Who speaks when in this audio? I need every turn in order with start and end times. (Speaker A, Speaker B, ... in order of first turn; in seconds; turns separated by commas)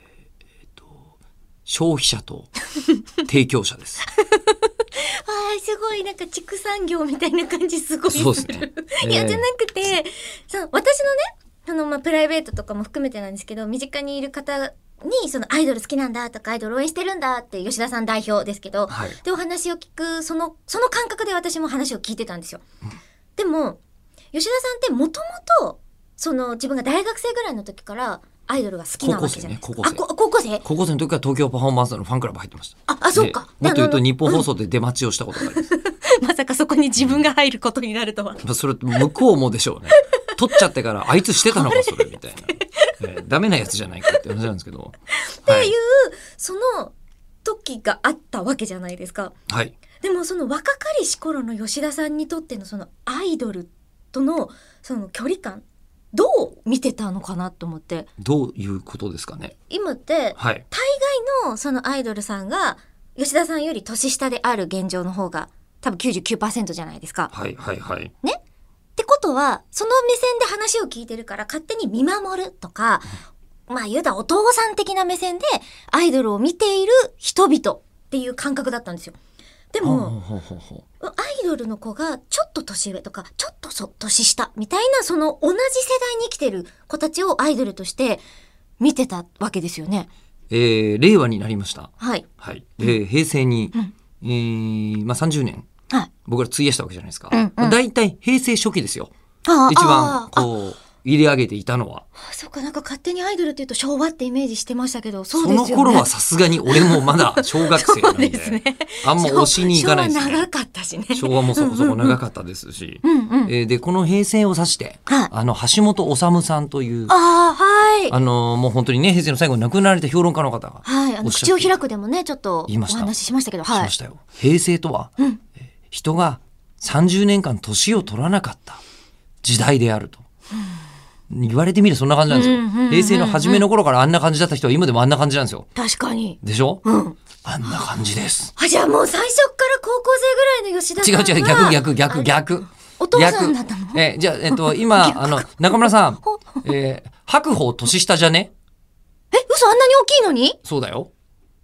Speaker A: 0.7-1.1, Speaker A: 1.7-2.5, Speaker A: 3.2-4.0, Speaker B: 4.2-22.6, Speaker A: 8.1-9.5, Speaker A: 18.9-19.2, Speaker B: 23.4-23.8, Speaker B: 24.3-30.6, Speaker A: 29.0-30.0, Speaker A: 30.6-35.7, Speaker B: 32.9-34.4, Speaker B: 35.4-38.4, Speaker A: 37.0-37.3, Speaker A: 38.4-44.9, Speaker B: 41.4-42.0, Speaker B: 42.7-42.9, Speaker B: 45.3-46.9, Speaker A: 45.5-45.7, Speaker B: 47.5-49.3, Speaker A: 49.5-49.8, Speaker B: 50.0-58.1, Speaker A: 58.2-59.5, Speaker B: 59.7-67.3, Speaker A: 60.4-60.6, Speaker A: 67.3-68.1, Speaker B: 69.0-79.2, Speaker B: 79.7-80.1, Speaker A: 79.8-80.8, Speaker B: 81.0-88.2, Speaker B: 88.8-90.1, Speaker A: 90.5-95.7, Speaker B: 92.0-92.3, Speaker A: 96.3-99.1, Speaker B: 97.3-97.8, Speaker B: 99.5-100.5, Speaker A: 99.7-102.0, Speaker B: 102.2-112.2, Speaker A: 105.3-110.5, Speaker A: 111.1-117.1, Speaker B: 113.0-113.5, Speaker B: 117.1-118.1, Speaker A: 118.1-121.7, Speaker B: 120.8-123.9, Speaker A: 122.7-125.1, Speaker A: 125.9-128.8, Speaker A: 129.4-130.2, Speaker A: 131.3-135.7, Speaker B: 132.3-133.7, Speaker B: 135.7-137.2, Speaker A: 136.4-136.8, Speaker A: 137.4-138.5, Speaker B: 138.6-142.3, Speaker A: 141.0-148.5, Speaker B: 143.0-146.6, Speaker B: 149.3-150.6, Speaker A: 150.6-151.1